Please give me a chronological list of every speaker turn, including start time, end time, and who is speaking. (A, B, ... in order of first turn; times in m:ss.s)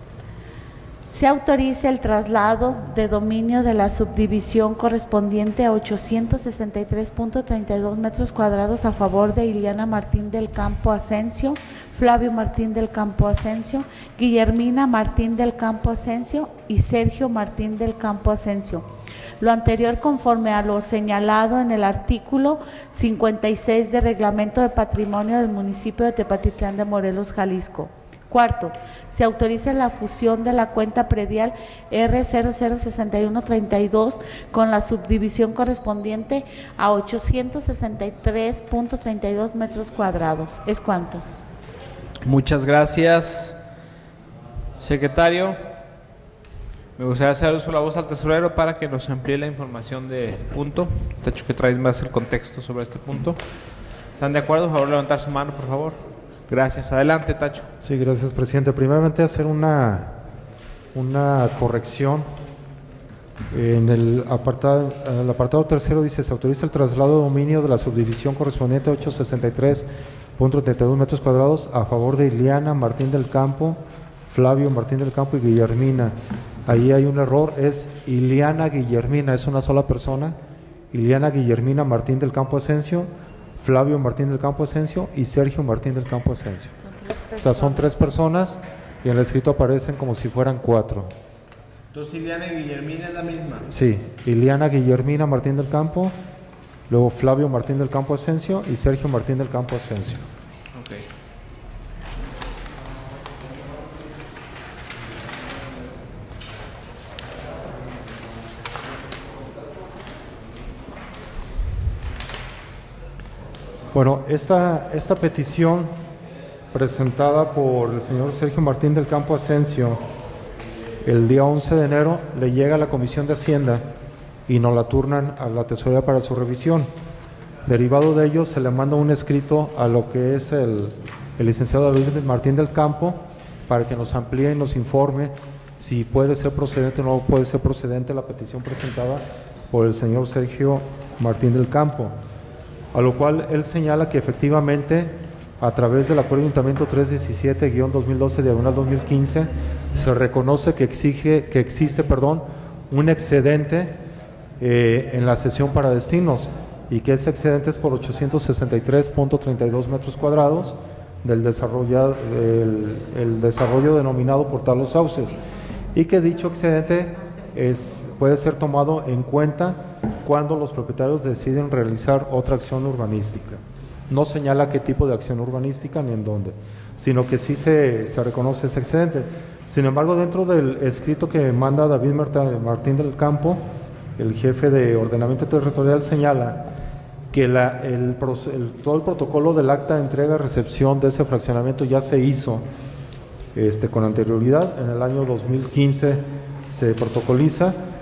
0:01.1-0:18.9 A
0:19.4-0:41.2 A
0:42.2-0:43.6 B
0:44.8-0:45.6 B
0:47.0-0:53.4 B
0:54.2-0:57.7 B
0:57.8-1:00.2 C
1:00.9-1:02.3 C
1:03.5-1:20.4 C
1:20.9-1:26.8 C
1:26.8-1:28.1 A
1:27.4-1:31.1 C
1:31.9-1:33.7 B
1:33.6-1:36.2 C
1:36.9-1:40.3 C
1:40.7-1:41.0 B
1:53.9-1:55.9 C
1:56.7-2:00.0 C
2:01.0-2:03.9 C
2:04.5-2:06.9 C
2:07.6-2:22.2 C
2:22.9-2:34.0 C
2:34.6-2:45.4 C
2:45.9-3:06.6 C
3:07.3-3:12.7 C
3:13.5-3:17.8 C